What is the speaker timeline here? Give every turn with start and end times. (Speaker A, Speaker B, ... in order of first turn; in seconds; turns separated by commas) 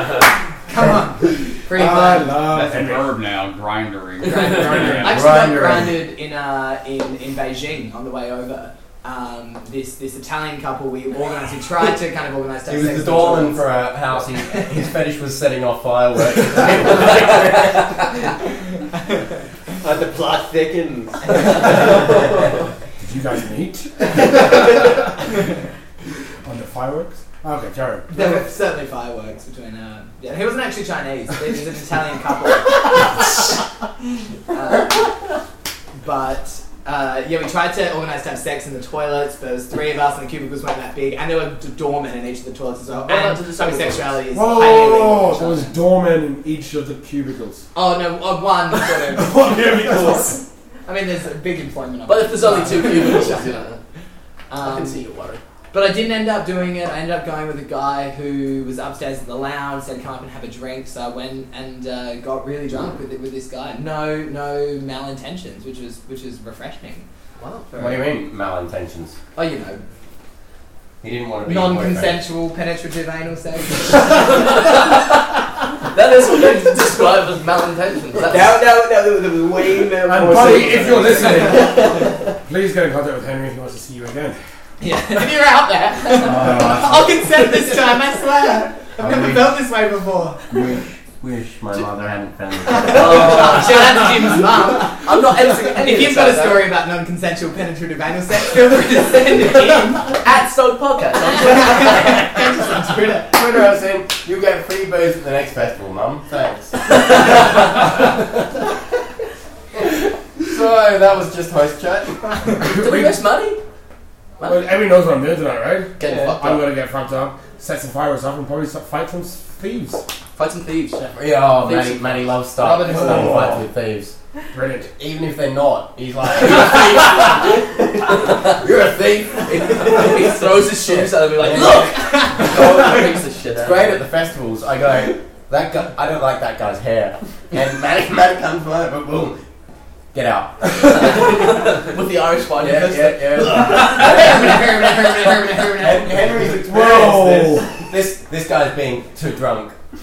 Speaker A: 0.7-2.4, Speaker B: 1.7-3.1, Speaker C: 2.5-5.2, Speaker B: 4.2-5.5, Speaker A: 5.0-13.9, Speaker D: 5.0-6.0, Speaker D: 12.7-18.2, Speaker E: 19.8-22.3, Speaker B: 23.0-24.9, Speaker B: 26.4-28.1, Speaker A: 28.1-33.5, Speaker A: 34.5-35.2, Speaker A: 36.0-45.8, Speaker F: 43.1-44.1, Speaker B: 44.3-47.6, Speaker A: 47.7-53.5, Speaker B: 49.1-50.4, Speaker F: 52.0-53.8, Speaker A: 54.5-55.0, Speaker F: 54.6-55.4, Speaker A: 55.7-67.0, Speaker F: 67.4-68.0, Speaker D: 67.8-69.2, Speaker F: 69.3-69.8, Speaker D: 71.0-72.2, Speaker A: 71.4-74.5, Speaker F: 75.9-78.6, Speaker E: 78.2-82.3, Speaker B: 80.0-84.4, Speaker F: 80.4-81.5, Speaker A: 84.8-90.6, Speaker D: 86.2-87.4, Speaker D: 89.0-89.6, Speaker D: 90.5-93.5, Speaker A: 92.8-95.0, Speaker F: 92.9-93.9, Speaker F: 95.0-96.7, Speaker A: 95.8-100.2, Speaker F: 99.5-102.1, Speaker A: 101.4-103.5, Speaker D: 103.3-107.4, Speaker D: 110.4-112.2, Speaker B: 112.6-113.2, Speaker F: 112.7-113.6, Speaker F: 114.4-114.6, Speaker B: 114.4-120.0, Speaker F: 116.0-116.6, Speaker F: 120.3-122.4, Speaker D: 121.1-124.1, Speaker A: 122.6-123.1, Speaker B: 122.8-123.6, Speaker B: 124.5-124.9, Speaker D: 125.0-127.4, Speaker F: 126.7-127.4, Speaker F: 128.3-134.0, Speaker D: 129.8-131.9, Speaker A: 131.5-132.9, Speaker D: 132.4-133.0, Speaker D: 133.6-139.4, Speaker D: 140.1-141.4, Speaker F: 141.0-144.2, Speaker D: 142.6-149.8, Speaker A: 143.6-146.3, Speaker B: 146.3-147.8